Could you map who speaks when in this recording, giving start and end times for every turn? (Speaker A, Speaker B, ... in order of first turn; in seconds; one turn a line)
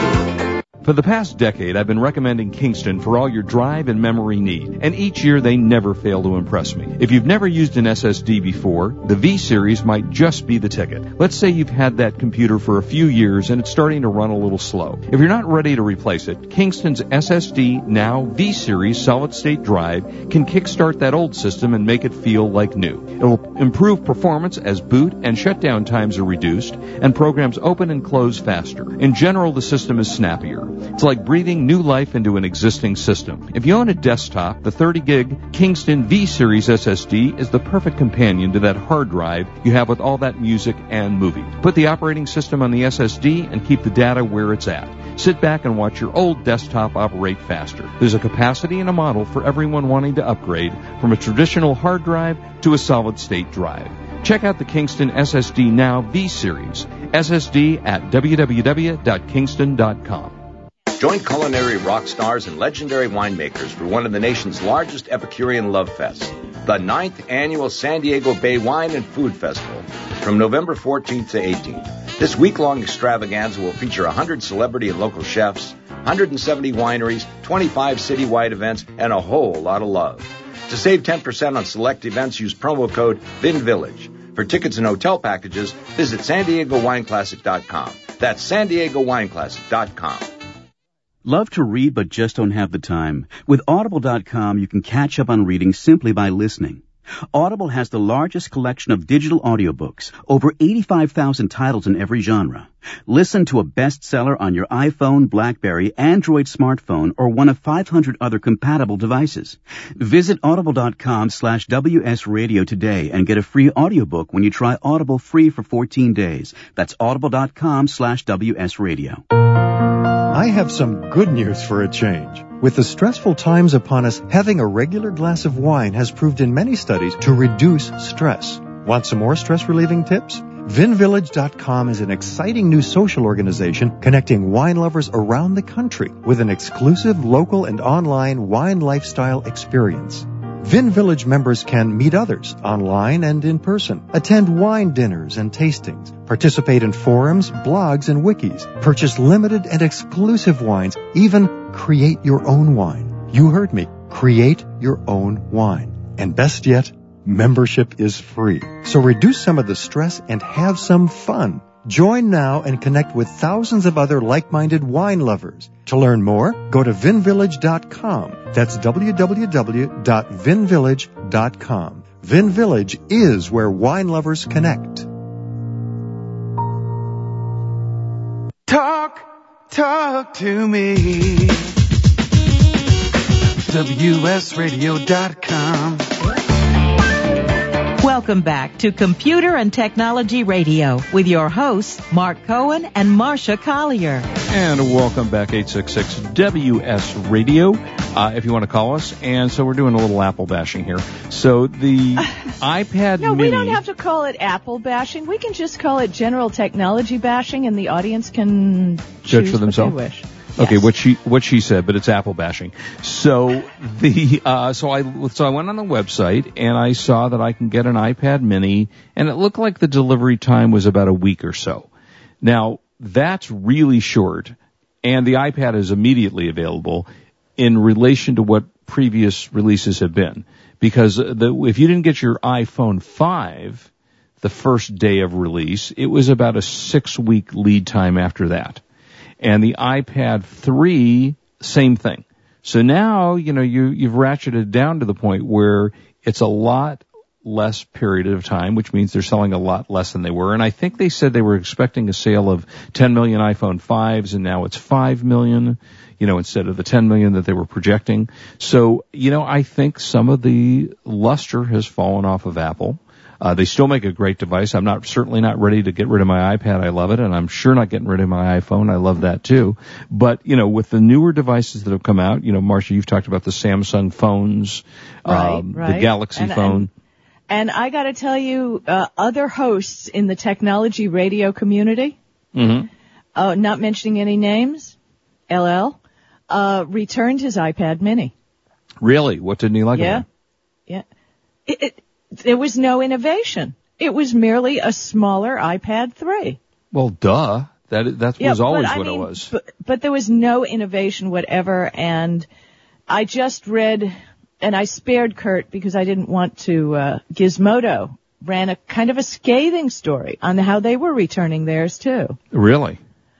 Speaker A: 0.8-60.3
Speaker B: 61.0-90.3
Speaker C: 91.2-119.2
Speaker D: 120.3-175.1
Speaker E: 178.7-181.7
Speaker E: 183.7-186.1
Speaker F: 188.0-194.3
Speaker A: 194.5-203.8
Speaker G: 203.2-210.9
Speaker A: 209.3-210.0
Speaker A: 210.6-221.9
Speaker A: 222.4-227.1
Speaker A: 227.6-233.9
Speaker A: 234.4-238.8
Speaker A: 239.4-276.9
Speaker G: 275.2-276.9
Speaker G: 277.5-282.1
Speaker A: 282.5-282.9
Speaker G: 283.4-284.9
Speaker G: 285.5-286.0
Speaker G: 286.5-288.3
Speaker A: 289.0-290.2
Speaker G: 289.9-290.2
Speaker G: 291.7-296.6
Speaker A: 296.9-299.5
Speaker G: 298.4-302.5
Speaker G: 303.1-312.4
Speaker A: 312.5-313.0